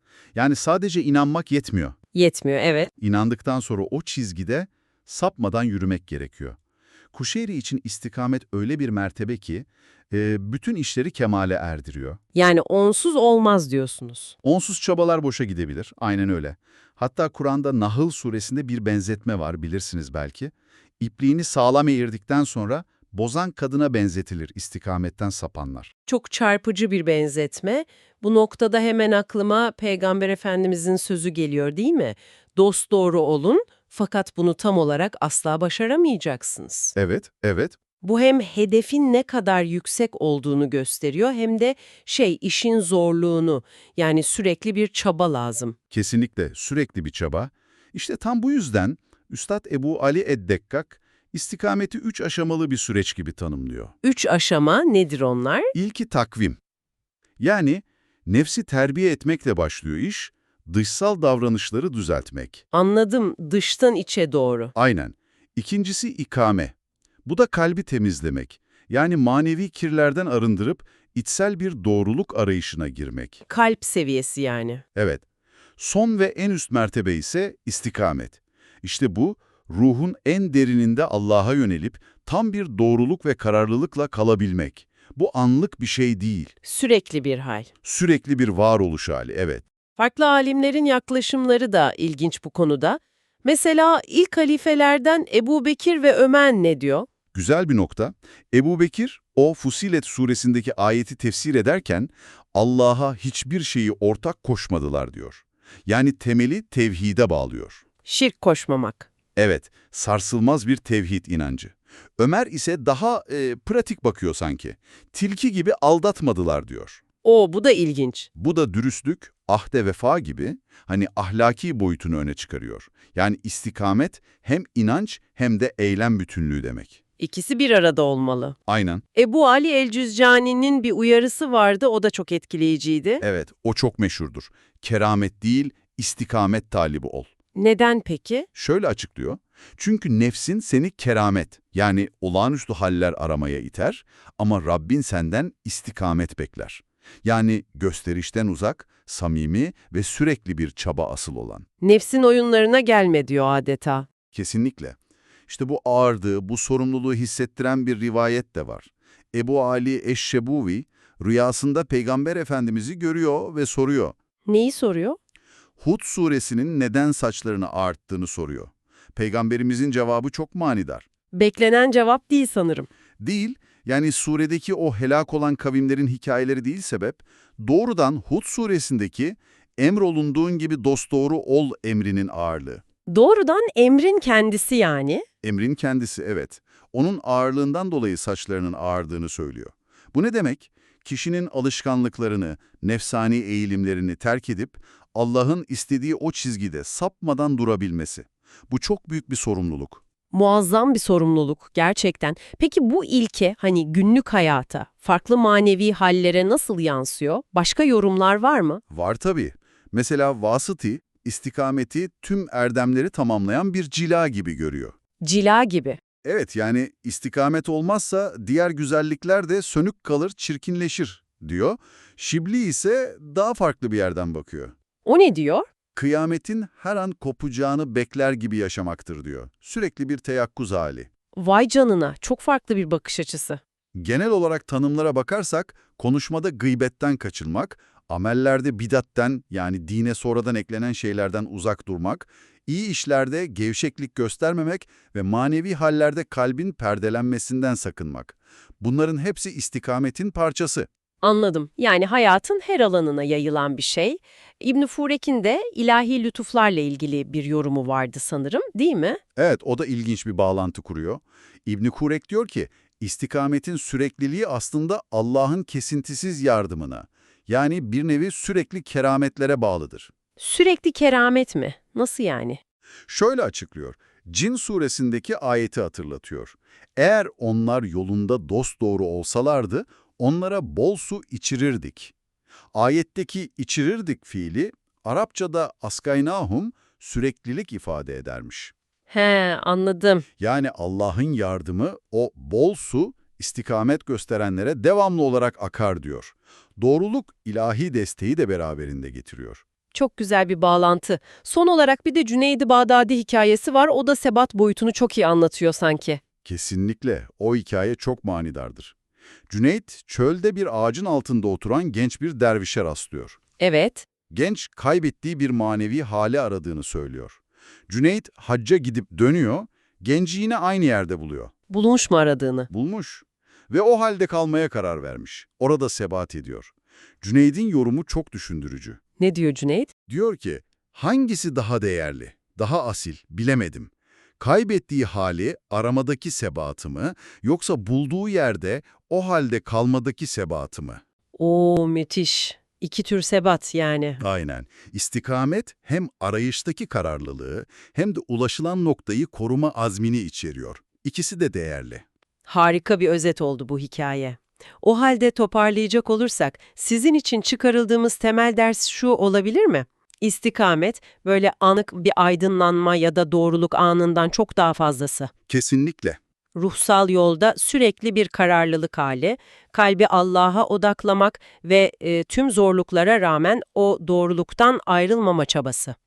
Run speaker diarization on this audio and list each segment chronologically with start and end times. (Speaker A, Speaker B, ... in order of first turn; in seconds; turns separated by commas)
Speaker A: 0.3-1.9, Speaker B: 2.1-2.9, Speaker A: 3.0-6.6, Speaker A: 7.1-12.2, Speaker B: 12.3-14.3, Speaker A: 14.4-25.9, Speaker B: 26.1-36.9, Speaker A: 36.9-37.7, Speaker B: 38.0-45.8, Speaker A: 45.9-53.9, Speaker B: 54.0-55.7, Speaker A: 55.7-56.6, Speaker A: 57.4-62.6, Speaker B: 62.7-64.7, Speaker A: 64.7-66.7, Speaker A: 67.2-73.4, Speaker B: 73.5-74.8, Speaker A: 74.9-75.2, Speaker A: 75.8-86.5, Speaker B: 86.6-87.7, Speaker A: 87.8-89.6, Speaker B: 90.0-97.1, Speaker A: 97.3-107.8, Speaker B: 108.0-109.1, Speaker A: 109.3-117.0, Speaker B: 117.2-118.3, Speaker A: 118.3-127.0, Speaker B: 127.2-128.6, Speaker A: 128.7-129.0, Speaker B: 129.1-133.2, Speaker A: 133.2-137.3, Speaker B: 137.5-138.5, Speaker A: 138.5-151.7, Speaker B: 151.8-154.1, Speaker A: 154.3-155.0, Speaker A: 155.5-164.1, Speaker B: 164.4-165.2, Speaker A: 165.8-171.1, Speaker B: 171.3-172.9, Speaker A: 173.2-182.8, Speaker B: 183.1-185.2, Speaker A: 185.4-200.0, Speaker B: 200.3-208.8, Speaker A: 208.9-214.9, Speaker B: 215.2-216.0, Speaker A: 216.2-224.7, Speaker B: 225.0-225.7, Speaker A: 225.9-231.1, Speaker B: 231.3-233.6, Speaker A: 233.9-250.9, Speaker B: 251.2-259.2, Speaker A: 259.4-270.1, Speaker B: 270.4-272.6, Speaker A: 273.1-282.1, Speaker A: 282.7-288.7, Speaker B: 289.1-290.2, Speaker A: 290.4-299.6, Speaker B: 299.9-306.2, Speaker A: 306.4-308.9, Speaker A: 309.5-313.4, Speaker B: 313.6-314.1, Speaker A: 314.3-321.5, Speaker B: 321.7-322.7, Speaker A: 322.7-329.0, Speaker B: 329.2-329.9, Speaker A: 330.1-341.0, Speaker B: 341.4-344.2, Speaker A: 344.2-352.0, Speaker B: 352.5-365.3, Speaker A: 365.5-366.2, Speaker B: 366.5-375.9